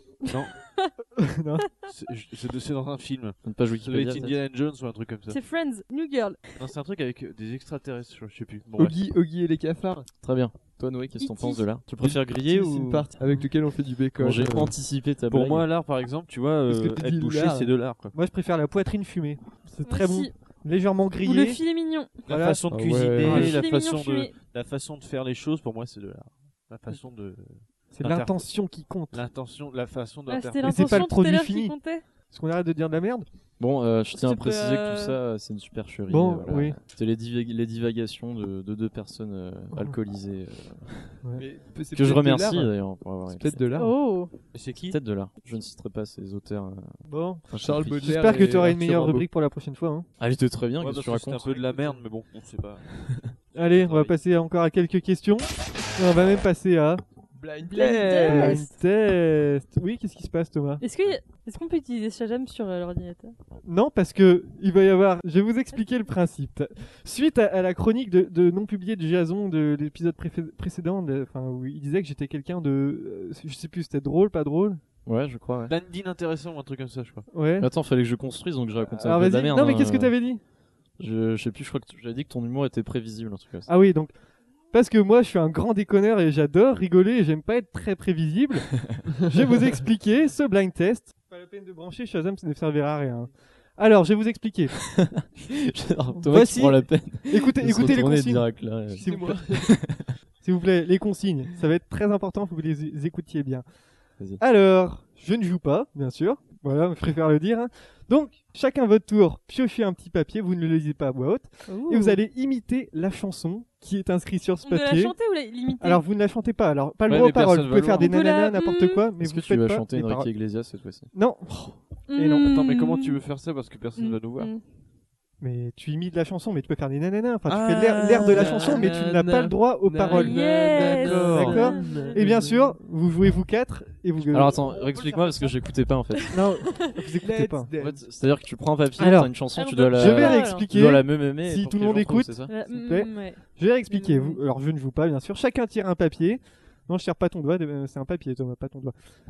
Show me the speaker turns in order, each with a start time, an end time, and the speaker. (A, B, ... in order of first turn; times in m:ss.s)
0:00.3-0:00.6 A
0:00.6-0:00.9 B
0:01.2-0:01.7 C
0:01.8-0:05.4 A
0:03.4-0:04.4 D
0:05.3-0:06.6 B
0:06.6-0:09.0 A
0:08.8-0:10.1 E
0:10.2-0:13.1 D
0:11.2-0:11.6 B
0:12.0-0:14.8 E
0:14.2-0:15.6 D
0:15.3-0:18.1 A
0:16.7-0:17.7 E
0:18.1-0:21.6 C
0:19.8-0:20.3 B
0:21.2-0:22.2 B
0:22.2-0:28.4 A
0:22.3-0:22.6 C
0:22.7-0:23.6 E
0:23.2-0:23.6 C
0:23.3-0:24.3 B
0:27.9-0:29.2 C
0:29.1-0:31.0 A
0:30.3-0:32.0 B
0:30.6-0:33.3 C
0:33.6-0:41.2 D
0:34.1-0:35.2 B
0:36.1-0:36.8 C
0:41.4-0:43.9 E
0:41.9-0:43.6 D
0:43.8-0:44.4 B
0:44.5-0:45.0 A
0:44.8-0:48.2 D
0:47.1-0:50.1 C
0:47.5-0:49.3 E
0:50.2-0:51.7 D
0:50.8-0:54.2 A
0:53.6-0:57.0 C
0:57.4-0:58.6 E
0:57.6-0:58.7 B
0:58.2-1:00.8 C
1:00.8-1:03.4 B
1:03.6-1:14.8 C
1:15.1-1:15.7 D
1:15.7-1:17.3 A
1:17.3-1:17.7 C
1:17.6-1:20.2 D
1:18.9-1:20.4 C
1:21.0-1:23.7 D
1:23.7-1:24.1 C
1:24.7-1:34.8 C
1:35.0-1:40.1 D
1:36.3-1:39.7 C
1:39.0-1:39.7 E
1:40.4-1:43.6 C
1:44.4-1:55.1 C
1:51.7-1:52.2 B
1:54.6-1:56.0 B
1:55.8-2:00.3 C
1:57.1-1:58.1 A
1:58.0-1:59.0 B
1:59.2-2:01.1 D
2:01.1-2:02.5 C
2:02.1-2:03.2 B
2:02.4-2:04.5 A
2:04.0-2:04.6 B
2:05.4-2:14.6 C
2:07.4-2:08.8 A
2:08.0-2:12.8 E
2:10.1-2:12.2 B
2:14.3-2:16.4 D
2:14.7-2:15.6 A
2:16.2-2:16.9 B
2:16.3-2:17.7 C
2:17.2-2:18.1 E
2:17.8-2:22.5 D
2:19.0-2:19.3 C
2:19.6-2:20.7 B
2:19.9-2:28.9 C
2:22.5-2:24.4 B